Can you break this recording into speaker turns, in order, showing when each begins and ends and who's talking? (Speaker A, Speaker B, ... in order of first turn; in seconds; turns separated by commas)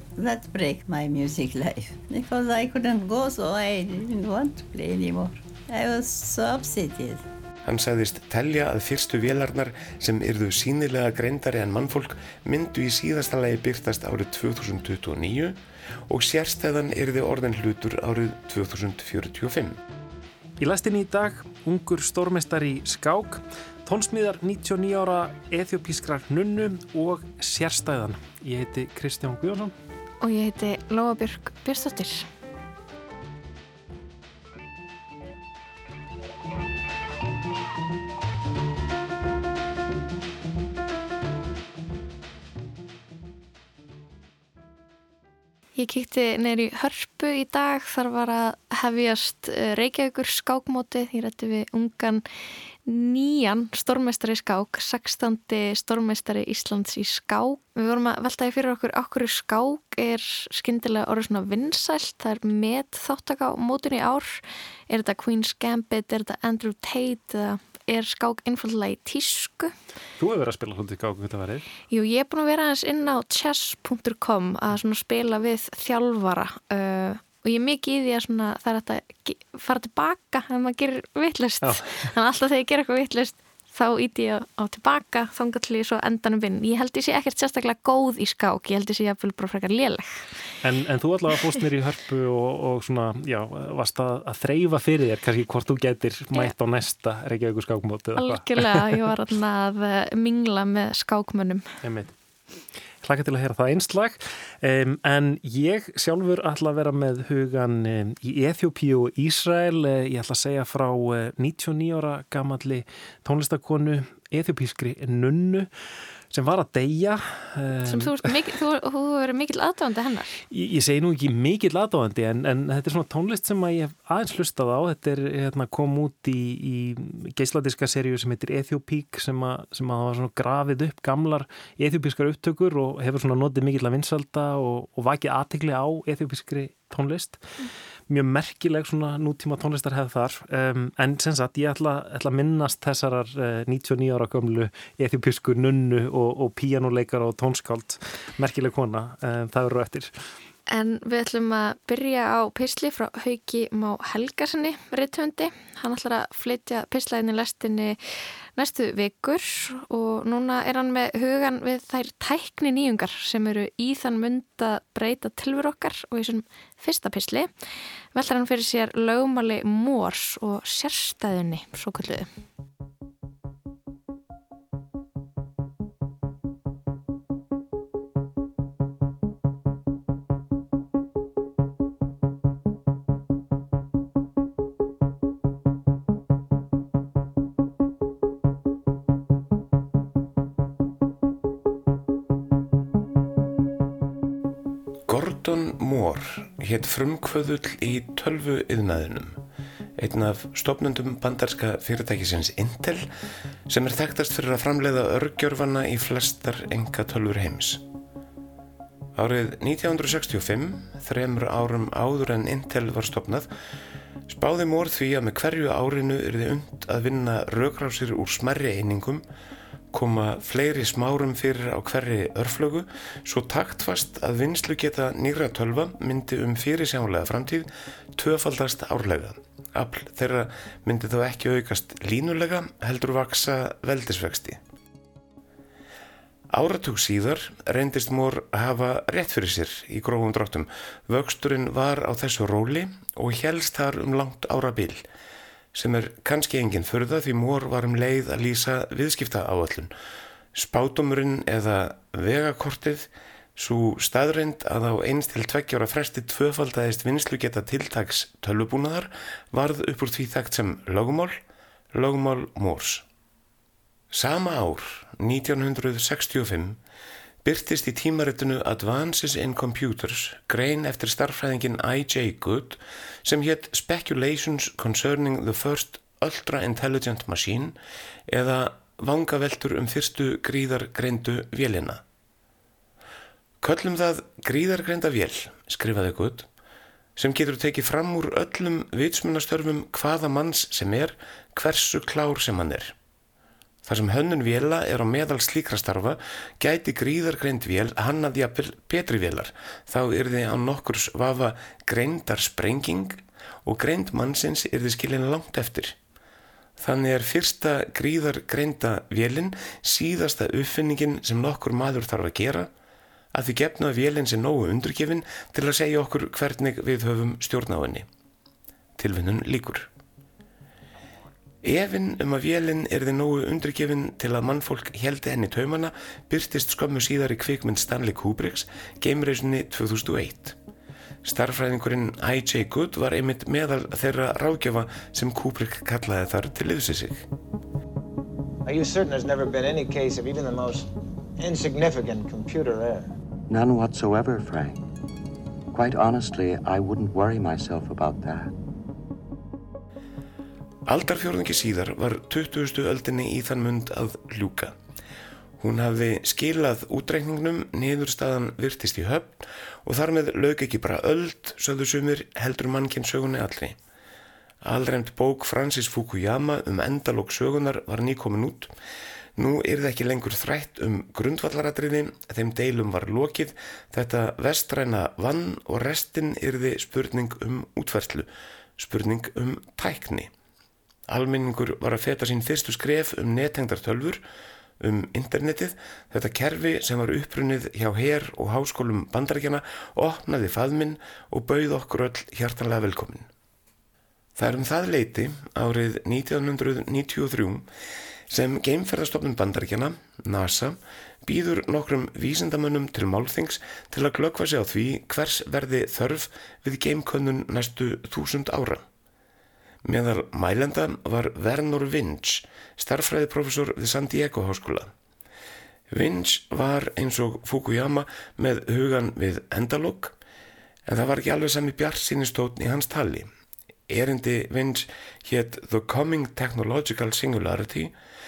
Speaker A: 0.2-7.2, Speaker B: 7.6-15.6, Speaker B: 16.1-19.8, Speaker C: 20.6-29.7, Speaker D: 30.2-32.3, Speaker D: 45.8-52.2, Speaker D: 52.9-69.7, Speaker C: 70.2-71.7, Speaker D: 71.9-90.3, Speaker C: 81.6-82.1, Speaker C: 90.6-99.0, Speaker D: 98.2-101.6, Speaker C: 101.8-102.1, Speaker C: 103.0-115.7, Speaker C: 116.3-118.2, Speaker D: 117.8-120.4, Speaker C: 120.5-150.2, Speaker D: 150.7-158.0, Speaker D: 158.6-167.5, Speaker D: 168.1-172.3, Speaker B: 195.1-199.4, Speaker B: 200.0-203.0, Speaker B: 203.7-207.8, Speaker B: 209.2-213.5, Speaker B: 214.3-219.2, Speaker B: 219.9-234.6, Speaker B: 236.5-245.0, Speaker B: 245.7-249.9, Speaker B: 250.5-261.4, Speaker B: 261.9-263.0, Speaker B: 264.1-266.8, Speaker B: 267.4-277.8, Speaker B: 278.3-282.0, Speaker B: 283.6-286.5, Speaker B: 287.2-292.9, Speaker B: 293.8-305.9, Speaker B: 306.8-312.7, Speaker B: 313.3-318.1, Speaker B: 319.0-319.9, Speaker B: 321.6-330.6, Speaker B: 331.2-337.2, Speaker E: 338.6-343.1, Speaker F: 343.5-344.8, Speaker F: 345.7-348.5, Speaker B: 350.9-354.7, Speaker B: 355.6-363.8, Speaker B: 364.6-368.7, Speaker B: 369.4-380.3, Speaker B: 381.1-384.2, Speaker B: 384.8-393.3, Speaker B: 394.4-397.6, Speaker B: 398.3-408.8, Speaker B: 409.8-414.9, Speaker B: 415.9-420.1, Speaker B: 420.9-423.3, Speaker B: 423.9-427.9